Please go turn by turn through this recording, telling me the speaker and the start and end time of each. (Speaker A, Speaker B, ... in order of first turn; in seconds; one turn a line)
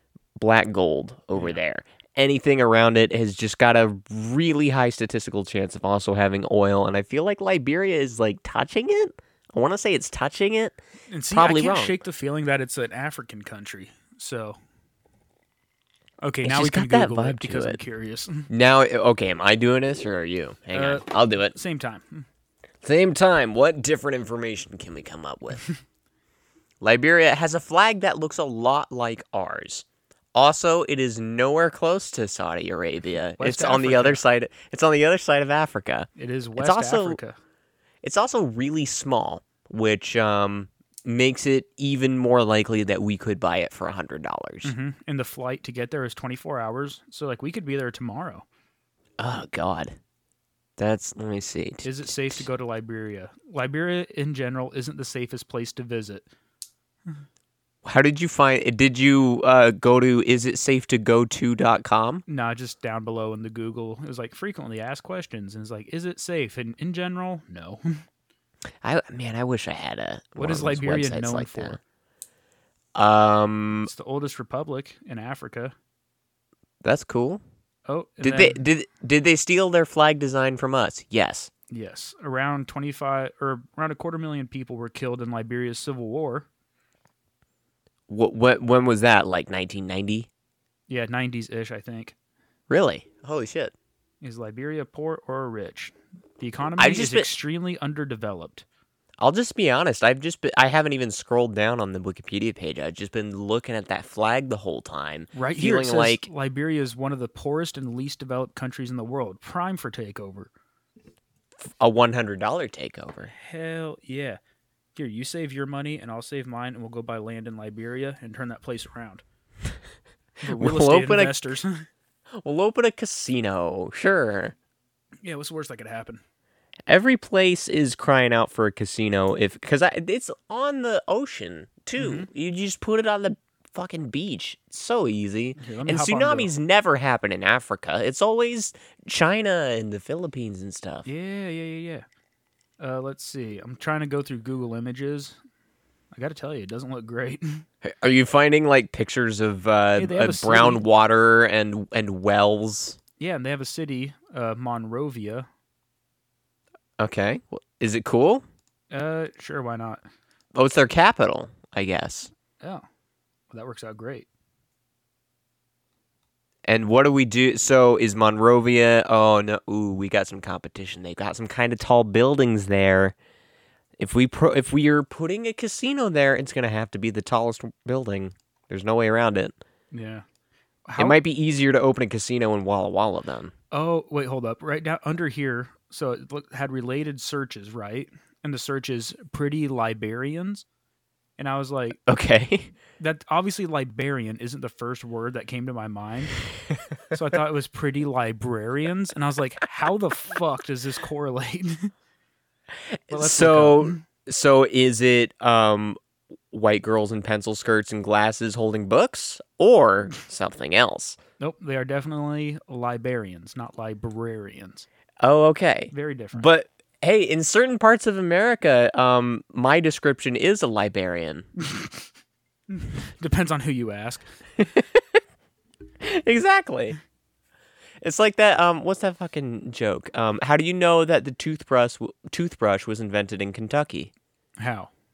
Speaker A: 0.4-10.8
Speaker B: 11.1-14.6
Speaker A: 11.3-11.9
Speaker B: 16.2-18.5
Speaker A: 16.4-17.8
Speaker A: 18.5-21.6
Speaker B: 20.7-22.3
Speaker A: 22.8-25.7
Speaker A: 26.8-37.2
Speaker B: 33.4-34.2
Speaker B: 36.2-37.4
Speaker A: 38.0-44.7
Speaker B: 44.6-48.5
Speaker A: 49.2-50.0
Speaker A: 50.8-52.4
Speaker B: 51.8-56.3
Speaker A: 57.8-62.2
Speaker B: 62.3-68.0
Speaker A: 68.8-71.8
Speaker B: 70.4-71.8
Speaker A: 72.9-73.9
Speaker B: 73.9-75.8
Speaker A: 76.8-77.4
Speaker B: 77.9-78.6
Speaker A: 78.2-81.5
Speaker B: 81.7-86.5
Speaker A: 88.1-90.3
Speaker B: 90.9-92.2
Speaker A: 92.7-93.7
Speaker B: 94.2-98.7
Speaker A: 96.8-97.3
Speaker A: 99.2-106.3
Speaker B: 105.3-110.5
Speaker A: 111.8-113.3
Speaker B: 113.3-114.4
Speaker B: 115.0-119.2
Speaker A: 120.4-121.5
Speaker B: 120.4-121.9
Speaker A: 122.3-124.5
Speaker B: 125.2-126.2
Speaker A: 126.9-141.1
Speaker B: 132.0-132.3
Speaker B: 135.6-136.5
Speaker B: 141.1-142.1
Speaker B: 142.8-145.4
Speaker B: 146.1-147.6
Speaker A: 147.8-153.0
Speaker B: 150.0-150.8
Speaker B: 153.2-155.5
Speaker A: 157.0-158.4
Speaker B: 158.9-160.0
Speaker A: 160.5-162.3
Speaker B: 163.5-164.3
Speaker A: 166.6-173.2
Speaker A: 174.0-179.6
Speaker B: 179.9-180.2
Speaker B: 180.9-181.2
Speaker A: 181.0-183.5
Speaker B: 183.7-190.7
Speaker B: 191.4-192.0
Speaker A: 192.1-192.7
Speaker B: 193.0-196.4
Speaker B: 197.1-201.9
Speaker A: 202.9-206.0
Speaker B: 203.1-204.0
Speaker A: 206.5-211.2
Speaker B: 211.4-214.9
Speaker A: 215.2-221.5
Speaker B: 215.9-216.5
Speaker B: 222.7-224.2
Speaker A: 224.6-225.2
Speaker A: 226.0-227.0
Speaker A: 228.0-234.1
Speaker B: 234.6-234.9